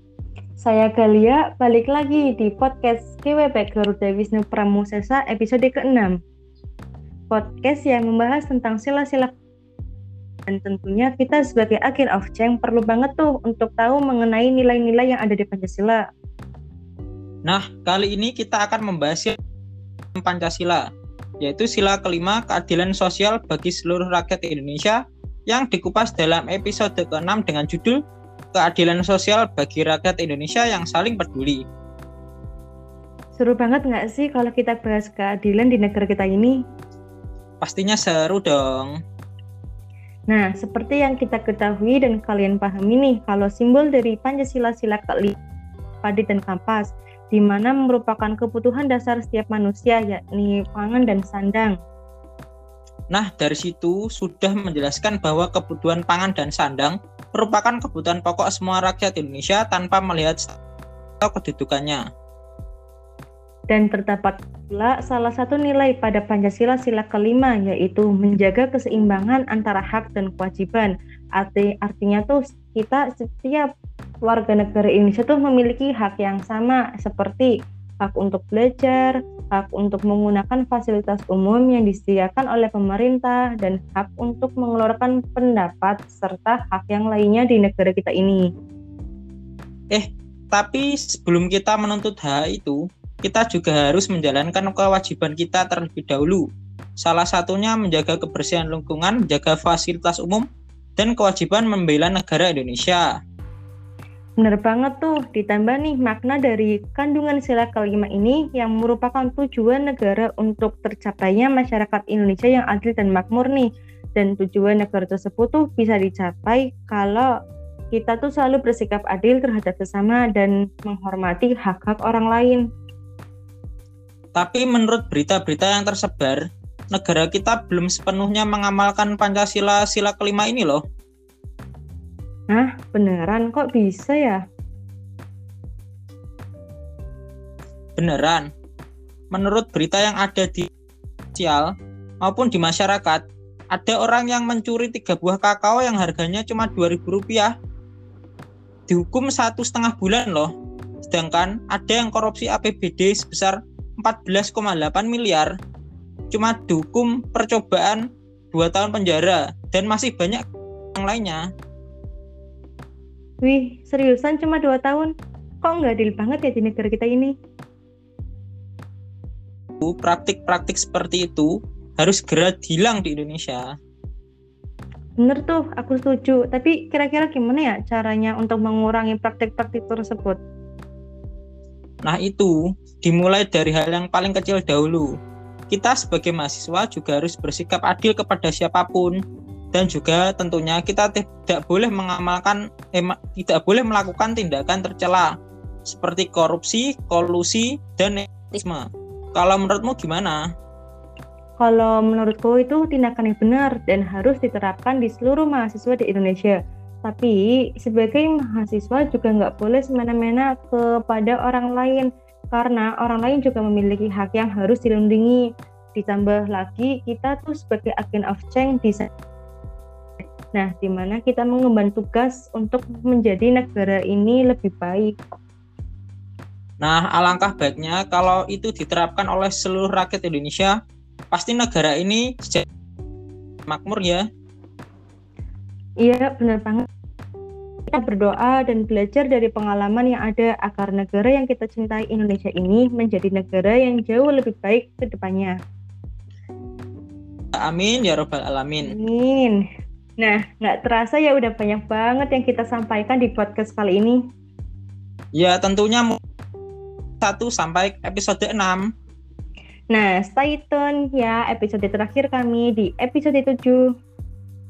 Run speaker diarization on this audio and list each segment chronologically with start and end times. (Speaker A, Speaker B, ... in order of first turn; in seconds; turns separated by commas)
Speaker A: 0.6-6.2, Speaker A: 7.3-9.3, Speaker A: 10.5-16.0, Speaker B: 17.5-19.4, Speaker B: 20.1-20.8, Speaker B: 21.4-28.0, Speaker B: 28.5-31.6, Speaker A: 33.4-36.6, Speaker B: 37.6-38.9, Speaker A: 40.3-45.4, Speaker A: 46.0-51.8, Speaker B: 53.1-60.6, Speaker B: 61.2-62.0, Speaker A: 63.7-73.7, Speaker A: 74.2-88.5, Speaker B: 89.9-96.5, Speaker B: 97.0-100.5, Speaker B: 101.0-103.1, Speaker A: 104.4-117.3, Speaker A: 117.9-122.7, Speaker B: 124.3-130.8, Speaker A: 132.5-134.4, Speaker B: 138.0-138.5, Speaker B: 139.3-140.7, Speaker B: 141.4-147.5, Speaker B: 148.9-150.5, Speaker B: 151.0-155.5, Speaker B: 156.3-160.4, Speaker B: 160.9-161.4, Speaker A: 163.4-167.3, Speaker B: 169.8-173.7, Speaker A: 175.2-180.4, Speaker B: 182.0-185.1, Speaker B: 185.7-189.2, Speaker B: 189.7-195.3, Speaker B: 195.9-200.4, Speaker A: 201.6-219.1, Speaker A: 220.6-225.2, Speaker B: 226.8-230.8, Speaker B: 231.3-232.7, Speaker B: 233.7-234.2, Speaker A: 236.0-236.9, Speaker A: 237.9-245.6, Speaker B: 247.6-248.9, Speaker A: 248.8-249.6, Speaker A: 250.2-254.2, Speaker B: 255.3-256.2, Speaker B: 257.2-258.9, Speaker A: 259.9-263.9